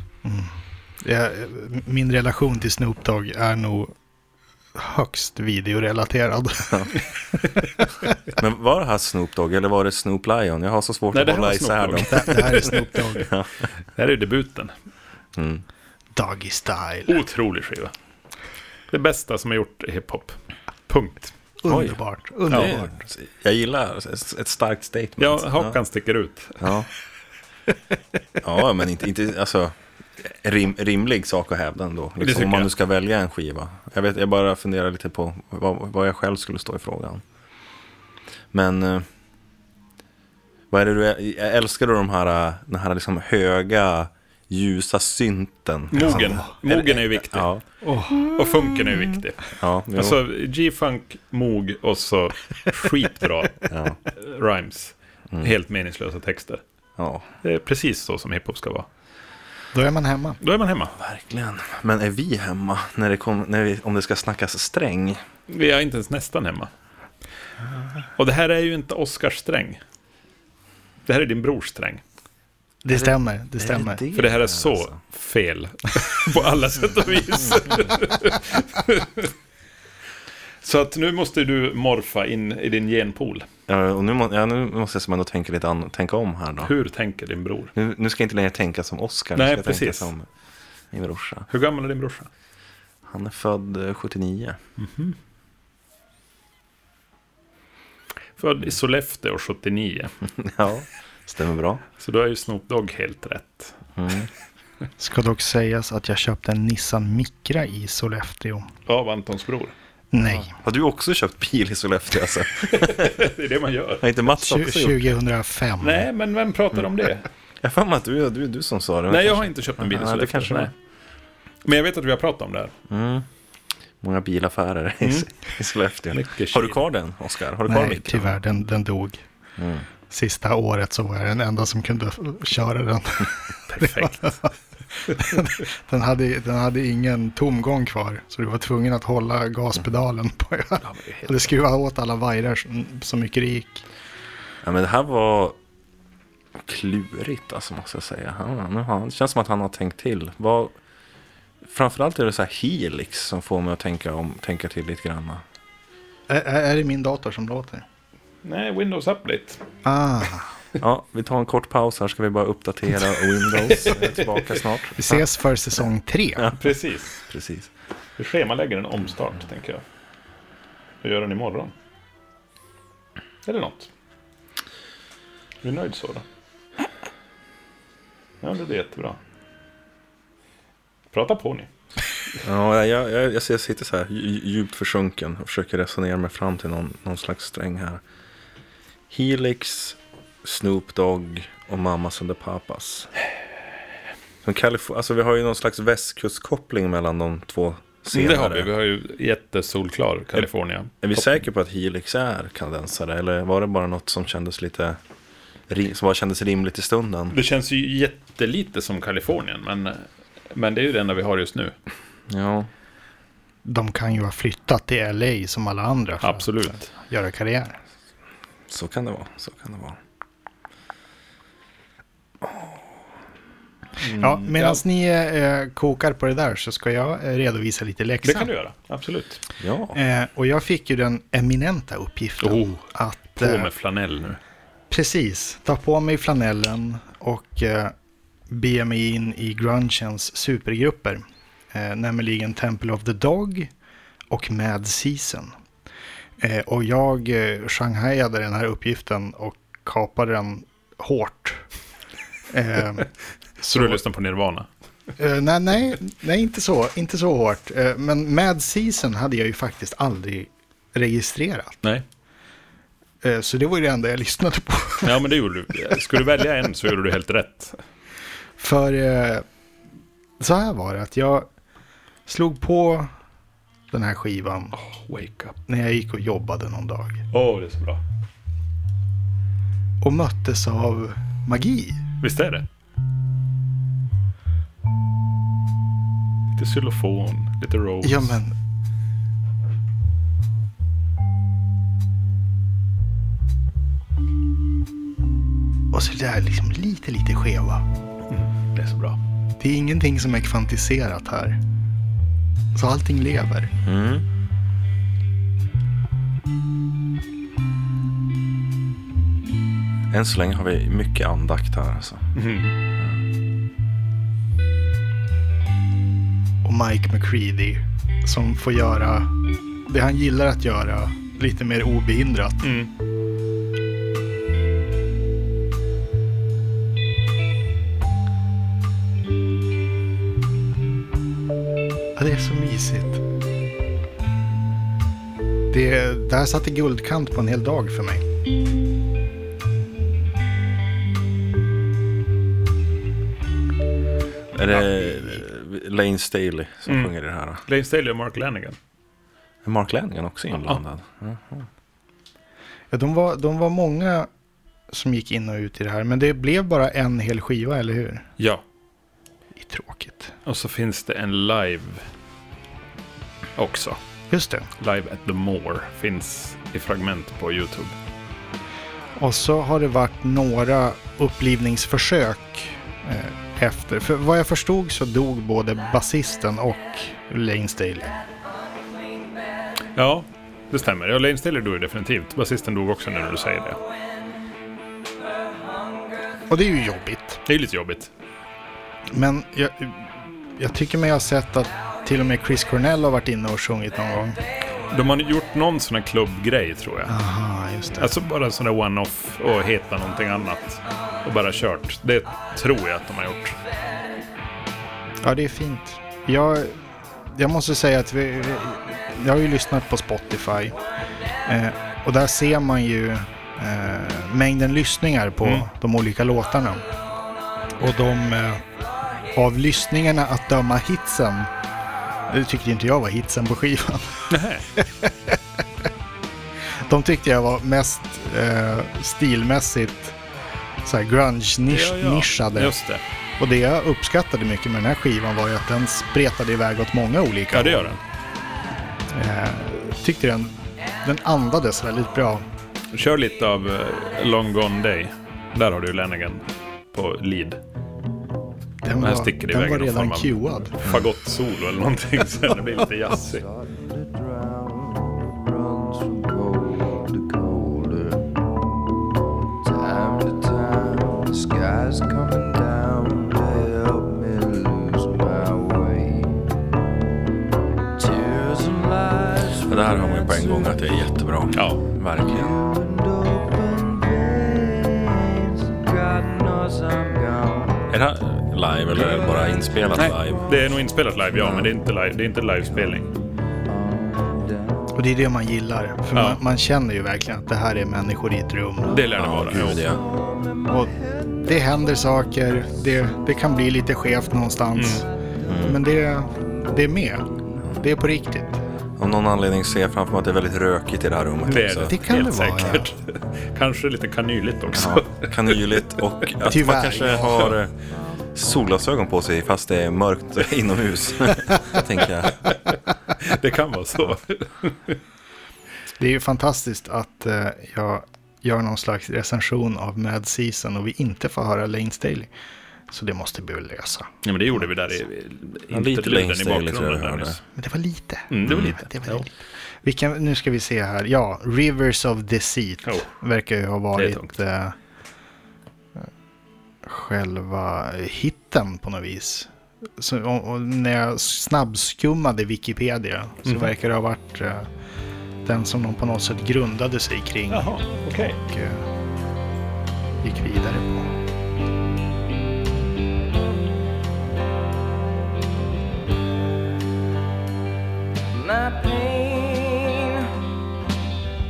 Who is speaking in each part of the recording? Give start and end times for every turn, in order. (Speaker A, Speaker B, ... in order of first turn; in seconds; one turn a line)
Speaker A: 0.2-3.9
Speaker A: 4.7-7.7
Speaker B: 8.3-13.6
Speaker C: 11.1-13.2
Speaker A: 12.1-13.3
Speaker C: 13.9-14.7
Speaker B: 15.3-15.6
Speaker A: 16.1-17.2
Speaker C: 17.1-17.9
Speaker C: 18.9-20.4
Speaker C: 20.9-21.3
Speaker A: 21.6-22.9
Speaker B: 21.7-25.8
Speaker C: 25.2-26.7
Speaker B: 26.6-26.9
Speaker B: 28.4-37.2
Speaker C: 32.2-32.7
Speaker B: 38.5-39.1
Speaker B: 40.7-47.6
Speaker C: 45.9-47.5
Speaker A: 47.8-48.3
Speaker C: 48.2-49.4
Speaker B: 49.5-50.2
Speaker C: 49.9-56.6
Speaker B: 53.7-54.0
Speaker B: 57.0-57.2
Speaker C: 57.4-58.9
Speaker A: 59.7-60.4
Speaker C: 60.4-61.0
Speaker B: 61.0-65.2
Speaker C: 65.5-66.7
Speaker C: 68.2-69.8
Speaker C: 71.0-72.0
Speaker A: 72.8-74.0
Speaker B: 72.9-75.0
Speaker C: 74.1-79.3
Speaker C: 80.6-83.5
Speaker B: 83.7-86.7
Speaker C: 86.6-87.7
Speaker B: 87.7-90.3
Speaker C: 89.3-90.1
Speaker B: 90.9-91.5
Speaker C: 91.5-92.3
Speaker B: 93.0-94.6
Speaker C: 94.8-95.2
Speaker C: 98.4-100.1
Speaker B: 100.4-101.8
Speaker C: 102.0-103.8
Speaker B: 104.0-104.3
Speaker A: 105.0-108.7
Speaker C: 108.8-109.7
Speaker A: 110.1-110.5
Speaker B: 110.2-113.2
Speaker C: 112.7-114.0
Speaker B: 114.0-115.2
Speaker A: 114.3-116.1
Speaker C: 115.8-117.3
Speaker B: 117.6-120.7
Speaker C: 119.1-120.7
Speaker C: 121.6-122.7
Speaker B: 122.9-123.3
Speaker B: 124.0-128.4
Speaker C: 125.0-125.3
Speaker C: 126.1-126.8
Speaker A: 127.7-129.2
Speaker B: 129.6-129.8
Speaker A: 130.1-134.3
Speaker C: 133.7-134.4
Speaker A: 135.1-143.8
Speaker C: 140.8-141.5
Speaker B: 144.6-145.6
Speaker B: 146.6-150.7
Speaker B: 151.6-155.4
Speaker A: 156.3-157.8
Speaker C: 158.4-159.6
Speaker A: 159.8-160.5
Speaker B: 160.8-165.2
Speaker C: 163.7-164.6
Speaker A: 164.9-166.5
Speaker B: 166.4-166.7
Speaker C: 166.5-167.2
Speaker B: 167.2-167.7
Speaker C: 168.2-169.8
Speaker C: 171.0-171.7
Speaker C: 173.4-173.9
Speaker C: 175.6-176.2
Speaker C: 178.4-179.2
Speaker C: 181.1-181.7
Speaker B: 182.4-188.0
Speaker B: 189.1-193.1
Speaker B: 194.4-198.7
Speaker C: 198.1-201.3
Speaker B: 201.0-205.0
Speaker B: 205.7-207.4
Speaker C: 207.3-211.7
Speaker B: 212.3-212.7
Speaker A: 213.6-217.8
Speaker C: 216.2-216.9
Speaker B: 218.7-220.0
Speaker B: 222.4-222.7
Speaker C: 224.0-224.8
Speaker A: 224.2-228.5
Speaker C: 228.2-229.4
Speaker B: 229.6-230.0
Speaker A: 229.9-233.7
Speaker C: 232.4-234.4
Speaker A: 234.9-237.9
Speaker A: 238.5-243.7
Speaker A: 244.3-245.5
Speaker A: 246.4-251.6
Speaker A: 252.5-253.1
Speaker A: 253.6-254.0
Speaker C: 253.7-254.7
Speaker A: 255.2-261.8
Speaker A: 263.2-265.2
Speaker C: 265.0-267.8
Speaker A: 268.6-269.4
Speaker A: 270.4-271.5
Speaker A: 272.2-273.1
Speaker A: 273.9-274.7
Speaker C: 274.7-275.6
Speaker A: 275.7-277.2
Speaker C: 277.3-278.0
Speaker A: 280.0-282.0
Speaker C: 282.2-282.6
Speaker C: 286.6-288.4
Speaker A: 288.0-288.5
Speaker A: 295.9-297.8
Speaker C: 298.3-299.2
Speaker A: 299.6-301.6
Speaker A: 302.7-303.7
Speaker B: 303.8-304.2
Speaker B: 310.1-312.3
Speaker C: 312.3-312.7
Speaker A: 316.6-319.3
Speaker A: 319.9-322.7
Speaker C: 322.6-322.9
Speaker A: 332.1-333.2
Speaker A: 335.7-338.2
Speaker B: 344.5-347.6
Speaker C: 346.9-347.1
Speaker C: 347.6-348.8
Speaker B: 349.6-351.7
Speaker A: 352.9-354.3
Speaker A: 354.9-358.2
Speaker A: 359.6-360.3
Speaker C: 360.4-362.0
Speaker C: 363.6-364.0
Speaker A: 364.3-364.7
Speaker C: 364.8-367.9
Speaker A: 369.1-378.2
Speaker C: 379.9-383.8
Speaker A: 386.5-387.4
Speaker C: 387.4-388.1
Speaker A: 389.1-394.4
Speaker C: 394.9-397.1
Speaker A: 397.1-398.1
Speaker C: 398.0-403.6
Speaker A: 405.2-406.8
Speaker A: 407.3-410.8
Speaker A: 411.4-416.8
Speaker A: 417.8-418.6
Speaker A: 419.3-421.5
Speaker A: 422.3-425.4
Speaker C: 424.3-424.7
Speaker A: 426.8-430.1
Speaker A: 430.8-432.8
Speaker C: 431.7-433.0
Speaker A: 433.4-437.9
Speaker C: 437.5-438.0
Speaker A: 439.1-442.4
Speaker C: 442.9-447.6
Speaker A: 448.8-450.7
Speaker C: 449.0-453.4
Speaker D: 453.3-458.3
Speaker D: 459.6-466.4
Speaker D: 468.0-470.9
Speaker B: 469.6-472.5
Speaker C: 471.5-471.8
Speaker D: 472.2-477.9
Speaker B: 477.9-480.5
Speaker D: 478.9-480.4
Speaker C: 479.9-483.1
Speaker B: 481.3-481.7
Speaker D: 483.7-484.8
Speaker A: 484.9-489.1
Speaker C: 486.1-486.4
Speaker C: 488.9-489.9
Speaker B: 489.1-490.0
Speaker D: 489.9-490.2
Speaker A: 490.7-490.9
Speaker A: 491.4-495.1
Speaker C: 494.7-495.0
Speaker B: 495.4-495.8
Speaker A: 495.6-498.6
Speaker B: 499.0-501.9
Speaker C: 501.4-505.6
Speaker A: 501.9-502.9
Speaker B: 504.7-507.7
Speaker A: 506.4-507.5
Speaker B: 508.3-512.4
Speaker C: 512.4-515.0
Speaker A: 516.0-522.3
Speaker A: 522.9-524.7
Speaker C: 524.2-527.4
Speaker B: 525.7-527.4
Speaker A: 527.5-534.7
Speaker C: 528.3-529.3
Speaker B: 528.5-528.7
Speaker C: 533.9-534.3
Speaker A: 536.8-544.7
Speaker C: 543.4-543.7
Speaker A: 545.4-548.9
Speaker C: 547.5-548.4
Speaker A: 550.2-551.1
Speaker D: 558.3-560.2